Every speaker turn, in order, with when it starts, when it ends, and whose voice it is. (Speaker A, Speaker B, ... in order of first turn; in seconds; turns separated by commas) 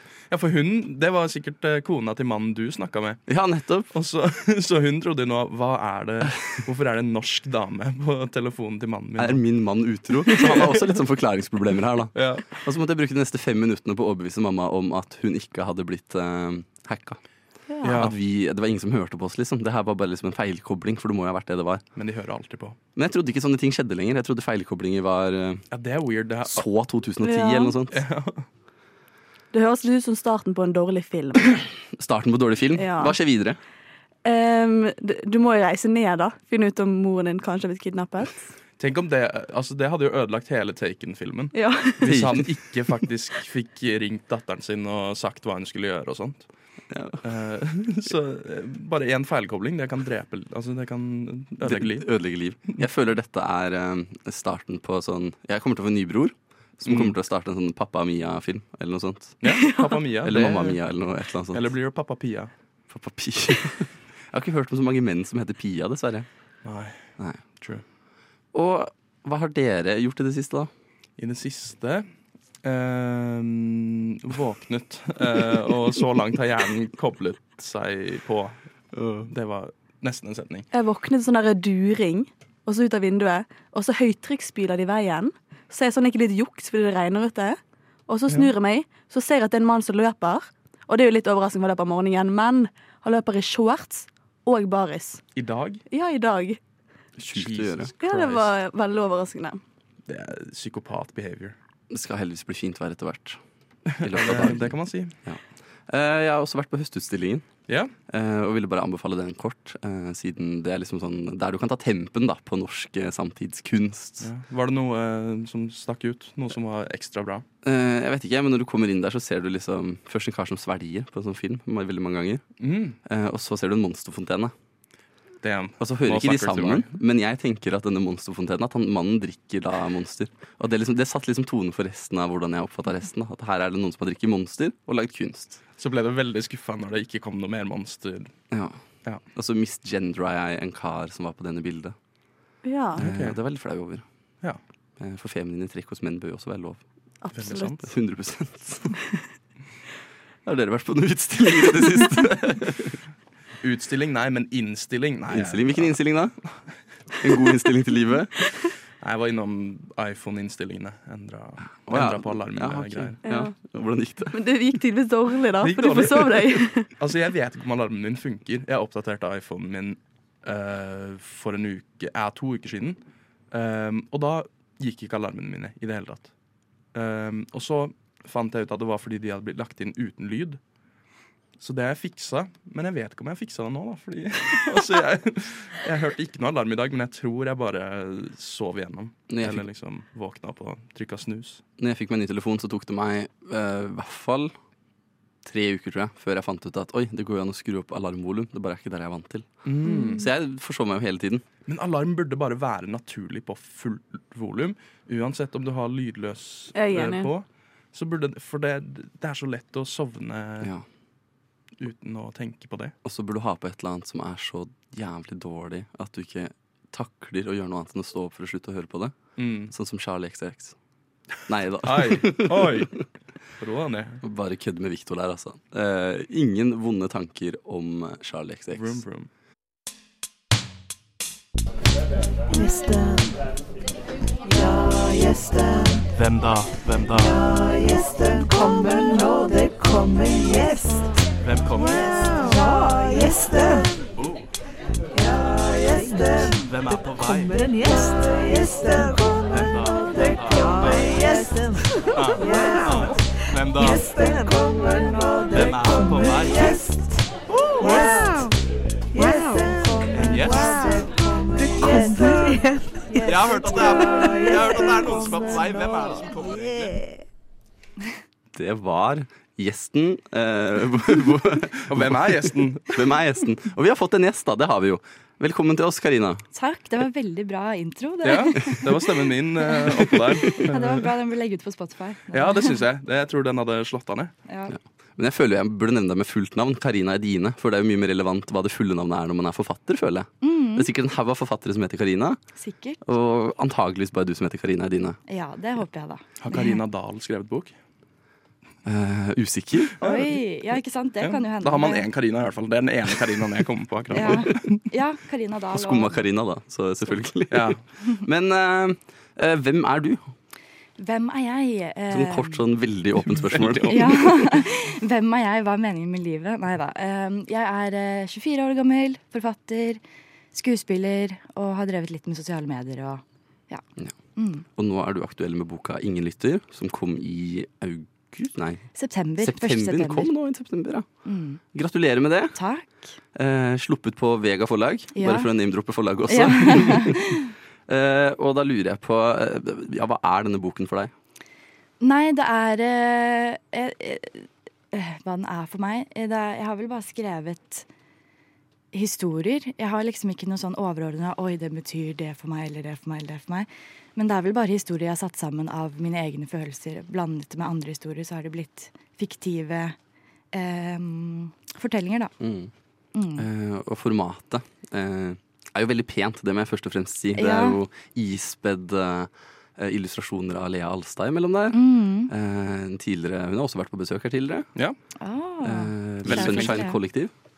Speaker A: 0.3-3.2, Speaker B: 3.3-3.9, Speaker A: 3.9-9.4, Speaker B: 9.2-17.2, Speaker A: 10.3-10.9, Speaker A: 12.2-12.5, Speaker C: 17.7-18.0, Speaker A: 17.8-18.2, Speaker B: 17.9-21.8, Speaker A: 22.0-22.8, Speaker B: 23.0-25.6, Speaker A: 25.7-26.6, Speaker B: 26.5-28.0, Speaker C: 27.2-27.8, Speaker A: 27.9-28.4, Speaker C: 29.5-31.6, Speaker B: 31.9-33.6, Speaker C: 32.8-33.2, Speaker C: 34.2-38.5, Speaker A: 38.8-46.5, Speaker C: 41.5-42.2, Speaker B: 42.1-42.5, Speaker B: 46.9-47.2, Speaker A: 47.2-52.1, Speaker B: 51.6-59.4, Speaker A: 56.9-57.1, Speaker A: 59.4-60.8, Speaker C: 59.5-60.0, Speaker B: 60.2-61.6, Speaker A: 61.5-62.5, Speaker B: 62.9-66.3, Speaker A: 66.7-67.8, Speaker B: 68.5-70.7, Speaker A: 71.2-72.0, Speaker A: 72.6-78.6, Speaker B: 79.0-79.3, Speaker A: 79.2-80.7, Speaker C: 80.7-95.2, Speaker A: 95.3-95.8, Speaker C: 95.9-96.6, Speaker B: 97.2-98.4, Speaker A: 97.3-98.3, Speaker C: 98.0-99.6, Speaker A: 100.1-101.5, Speaker B: 101.9-103.4, Speaker B: 103.9-107.5, Speaker A: 104.0-105.1, Speaker B: 108.1-114.3, Speaker A: 114.2-117.5, Speaker B: 117.6-122.5, Speaker A: 122.6-123.0, Speaker B: 123.1-124.5, Speaker A: 125.4-126.9, Speaker B: 125.8-135.6, Speaker A: 135.8-138.3, Speaker B: 138.5-138.8, Speaker B: 139.3-141.9, Speaker C: 142.6-143.0, Speaker A: 143.0-143.4, Speaker B: 143.0-144.0, Speaker B: 145.0-146.8, Speaker C: 147.2-147.8, Speaker A: 147.3-147.8, Speaker B: 147.8-148.9, Speaker B: 150.5-152.9, Speaker A: 153.6-156.0, Speaker B: 155.3-156.5, Speaker B: 157.2-158.5, Speaker A: 159.0-163.2, Speaker B: 161.9-164.4, Speaker C: 163.2-163.5, Speaker C: 164.3-166.9, Speaker A: 165.6-173.0, Speaker A: 173.5-176.3, Speaker A: 176.9-180.6, Speaker A: 181.6-191.6, Speaker B: 189.3-189.6, Speaker B: 191.8-194.5, Speaker B: 195.4-199.7, Speaker A: 199.7-200.3, Speaker B: 200.2-201.4, Speaker A: 201.7-210.7, Speaker C: 206.7-207.3, Speaker A: 211.8-212.9, Speaker B: 213.1-220.8, Speaker A: 219.4-219.7, Speaker B: 221.5-222.8, Speaker A: 221.9-223.1, Speaker A: 223.6-224.2, Speaker B: 224.2-229.0, Speaker A: 228.7-229.3, Speaker D: 232.6-233.3, Speaker A: 236.1-237.4, Speaker D: 238.2-241.0, Speaker A: 241.4-242.4, Speaker A: 244.2-244.5, Speaker A: 246.6-247.7, Speaker A: 249.5-251.4, Speaker A: 252.1-254.1, Speaker D: 254.4-255.1, Speaker A: 255.5-256.8, Speaker A: 257.6-258.4, Speaker A: 260.1-261.1, Speaker A: 263.2-266.9, Speaker B: 268.6-276.4, Speaker A: 271.9-273.2, Speaker E: 276.5-278.9, Speaker A: 278.2-281.1, Speaker E: 279.7-282.8, Speaker A: 282.3-284.3, Speaker E: 284.5-284.8, Speaker B: 284.7-292.4, Speaker E: 290.4-290.9, Speaker E: 292.6-293.0, Speaker B: 293.1-295.2, Speaker E: 295.3-296.8, Speaker A: 296.4-297.8, Speaker B: 298.9-300.0, Speaker A: 300.0-300.4, Speaker E: 300.0-302.1, Speaker A: 301.2-304.8, Speaker E: 304.1-306.2, Speaker B: 305.7-310.3, Speaker A: 307.5-307.8, Speaker E: 311.0-312.6, Speaker B: 312.1-314.1, Speaker A: 313.3-314.6, Speaker E: 313.9-320.0, Speaker E: 320.5-323.8, Speaker E: 324.4-324.6, Speaker B: 324.8-331.1, Speaker E: 328.9-330.3, Speaker E: 331.2-331.6, Speaker B: 331.7-332.6, Speaker E: 332.6-333.2, Speaker B: 333.4-341.1, Speaker E: 335.1-335.5, Speaker E: 336.3-337.5, Speaker E: 342.0-347.9, Speaker E: 348.9-360.0, Speaker E: 360.5-362.3, Speaker B: 362.4-362.7, Speaker E: 363.1-363.5, Speaker B: 363.4-374.7, Speaker E: 367.4-367.8, Speaker E: 371.7-372.3, Speaker E: 375.2-377.0, Speaker B: 375.6-377.3, Speaker A: 376.2-376.8